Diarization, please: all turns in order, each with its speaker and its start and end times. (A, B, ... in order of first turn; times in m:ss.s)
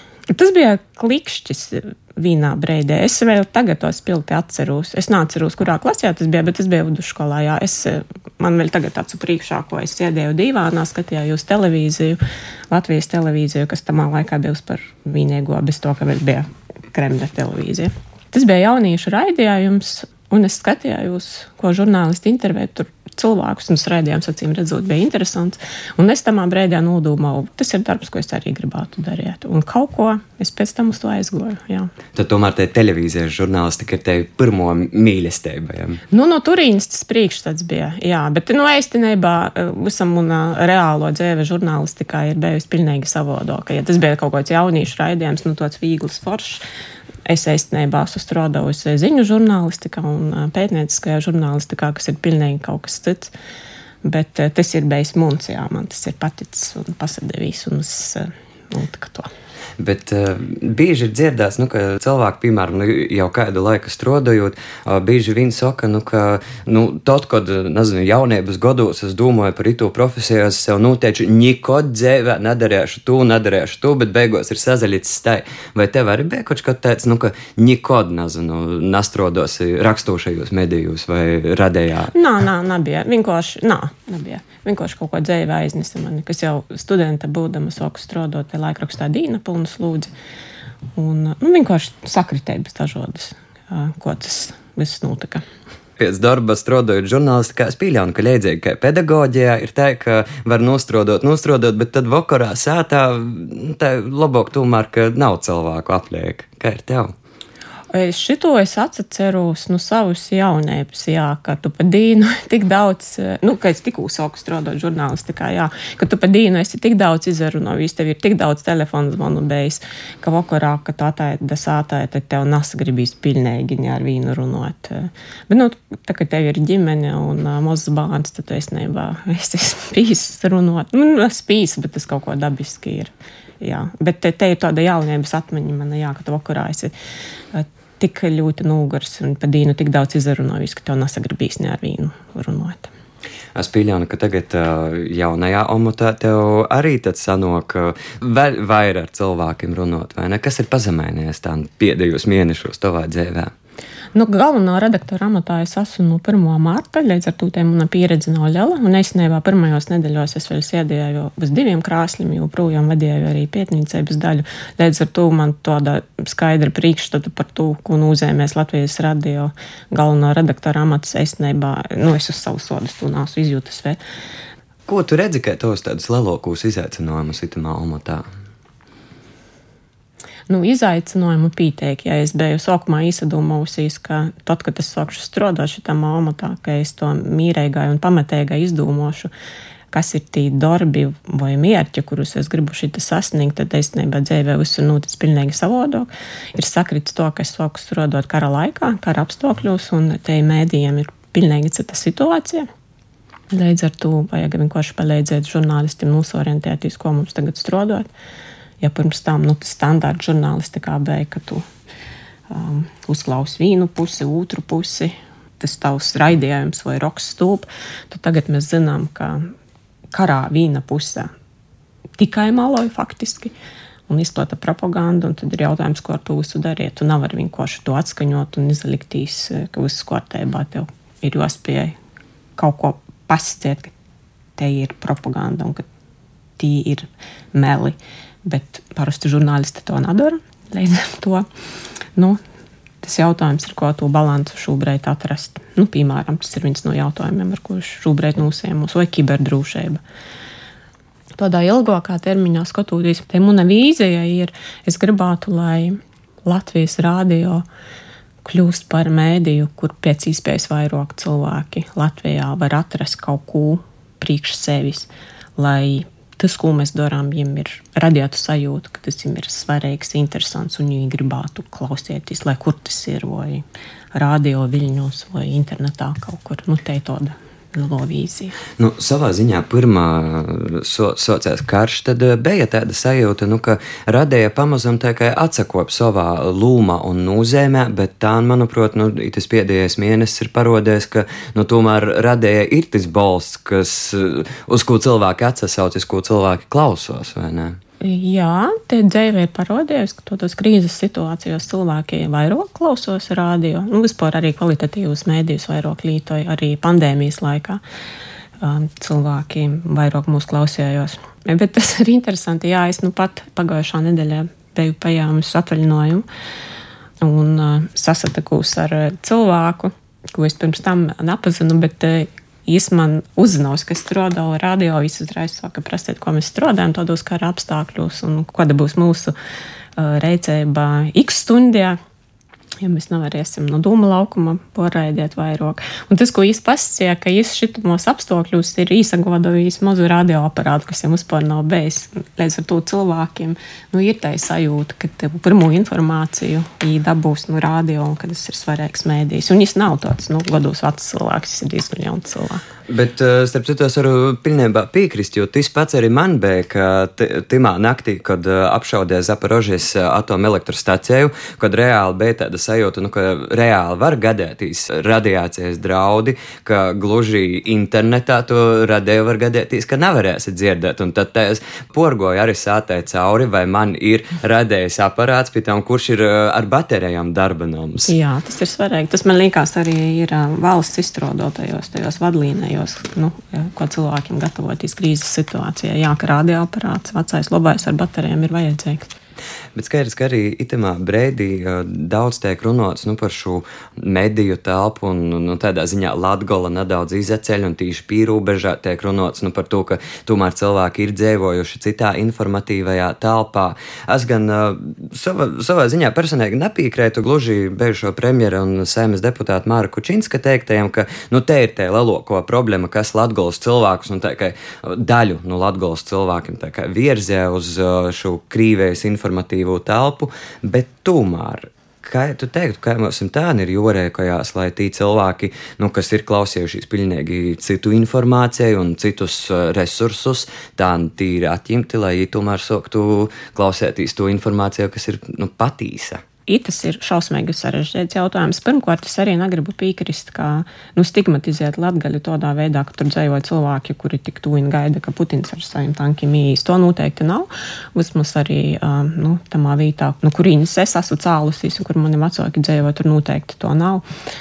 0:00.3-0:31.9 A
0:32.1-0:36.0 B
0:36.1-0:46.6 A
0:47.2-0:53.3 A
0:54.0-0:59.3 A
0:59.8-1:22.1 B
1:22.1-1:30.1 A
1:31.0-1:35.4 A
1:36.0-1:47.1 B
1:47.9-2:16.9 A
2:17.5-2:22.9 A
2:23.5-2:33.5 B
2:34.1-2:54.0 A
2:54.9-2:58.2 B
3:00.5-3:09.3 A
3:09.9-3:22.7 A
3:23.5-3:28.1 A
3:28.8-3:31.6 A
3:32.5-3:39.5 A
3:40.1-3:41.3 A
3:42.2-3:43.5 A
3:44.1-3:52.0 A
3:52.6-3:53.9 A
3:54.6-3:55.8 A
3:56.6-4:01.4 A
4:03.0-4:10.0 A
4:11.4-4:17.6 A
4:18.4-4:38.6 A
4:38.8-4:57.8 B
4:58.0-5:07.8 A
5:08.6-5:16.2 A
5:17.2-5:29.3 A
5:30.0-5:32.0 A
5:32.8-5:52.6 A
5:52.9-6:18.1 B
6:18.0-6:29.1 A
6:29.8-7:16.2 B
7:16.5-7:34.0 A